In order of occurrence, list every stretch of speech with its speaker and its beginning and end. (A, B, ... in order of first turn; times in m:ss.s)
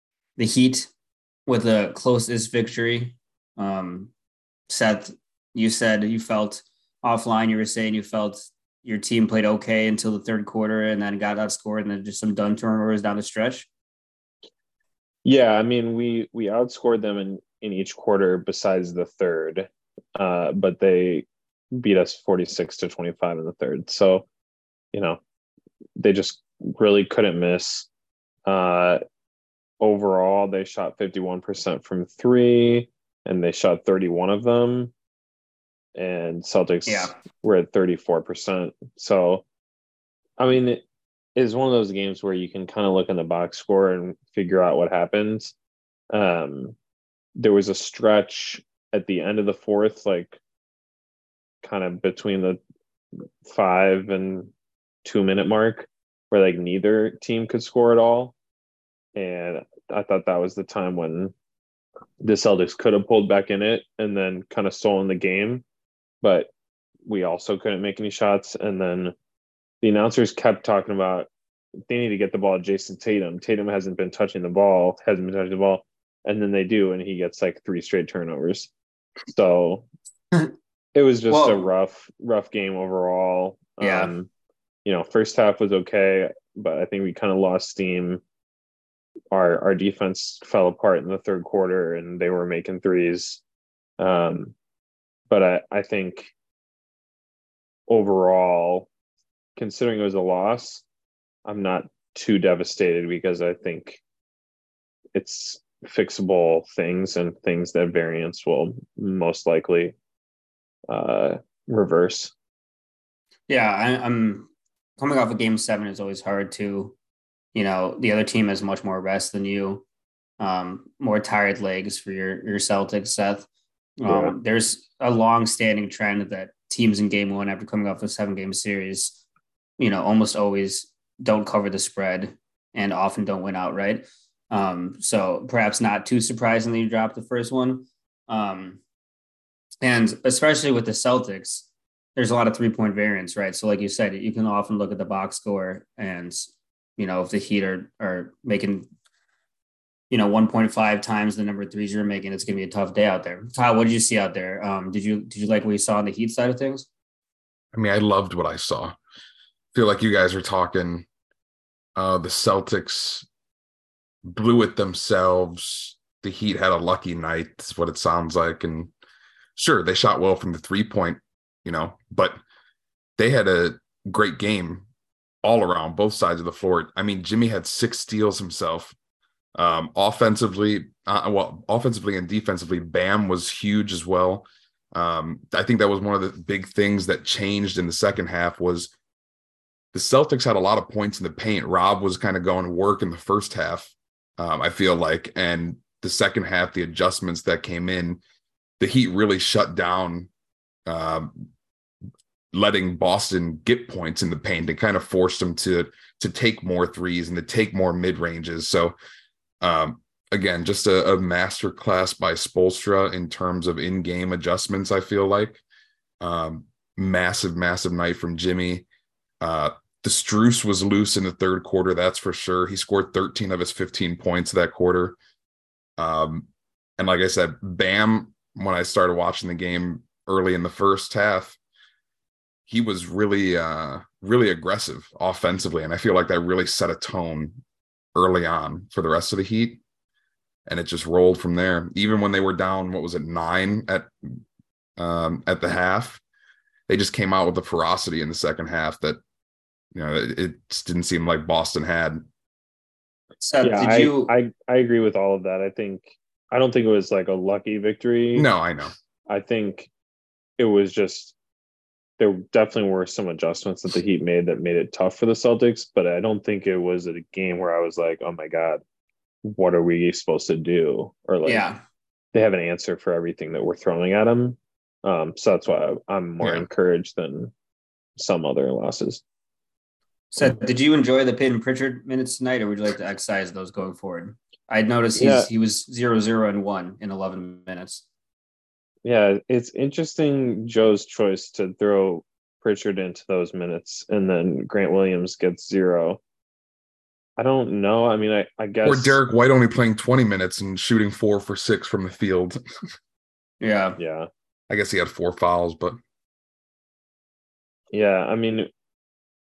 0:00.4-0:00.9 A
0:01.5-0:04.1 A
0:04.7-0:13.7 A
0:15.2-0:24.3 B
0:24.9-0:25.2 B
0:26.0-0:27.9 B
0:28.5-0:29.0 B
0:29.8-0:34.9 B
0:36.0-0:39.4 B
0:36.9-0:37.1 A
0:40.4-0:40.8 B
0:41.4-0:45.5 B
0:46.1-0:46.8 B
0:47.4-0:50.4 B
0:51.6-0:52.6 B
0:53.4-0:54.5 B
0:55.0-0:58.3 B
0:59.2-1:01.3 B
1:02.2-1:05.6 B
1:06.2-1:06.5 B
1:07.1-1:09.1 B
1:09.8-1:11.3 B
1:11.9-1:18.7 B
1:19.3-1:19.9 B
1:21.0-1:24.3 B
1:21.3-1:21.7 A
1:23.8-1:24.1 A
1:24.8-1:28.2 B
1:29.3-1:33.4 B
1:34.0-1:34.6 B
1:35.3-1:36.3 B
1:37.9-1:38.9 B
1:39.6-1:40.8 B
1:41.4-1:44.0 B
1:45.2-1:50.0 B
1:50.9-1:52.3 B
1:53.5-1:57.0 A
1:57.6-1:59.8 A
2:00.4-2:03.5 A
2:04.0-2:09.2 A
2:04.1-2:04.4 B
2:09.8-2:18.8 A
2:19.8-2:28.9 A
2:30.1-2:36.9 A
2:37.7-2:39.0 C
2:39.8-2:41.1 C
2:42.0-2:43.3 C
2:44.2-2:48.9 C
2:49.6-2:52.4 C
2:53.2-2:54.8 C
2:55.4-2:59.0 C
2:59.6-3:08.9 C
3:09.9-3:18.2 C
3:18.8-3:20.3 C
3:20.9-3:21.5 C
3:22.5-3:29.0 C
3:29.6-3:35.6 C
3:36.2-3:38.9 C
3:39.4-3:45.2 C
3:46.0-3:46.5 C
3:47.0-3:51.6 C
3:52.7-3:57.6 C
3:58.2-3:59.8 C
4:00.7-4:04.4 C
4:05.0-4:06.2 C
4:06.9-4:09.2 C
4:09.9-4:12.2 C
4:13.4-4:14.3 A
4:13.6-4:18.5 B
4:18.3-4:18.9 C
4:19.3-4:19.9 B
4:20.6-4:21.4 B
4:22.2-4:28.8 B
4:29.4-4:31.7 B
4:31.4-4:31.8 A
4:32.3-4:37.5 B
4:36.4-4:36.7 C
4:38.2-4:39.2 B
4:40.3-4:48.0 A
4:45.2-4:45.5 B
4:49.0-4:56.2 B
4:57.4-4:59.2 B
4:58.8-5:02.6 C
5:03.6-5:04.0 A
5:04.0-5:04.3 B
5:04.7-5:06.0 C
5:07.9-5:08.7 B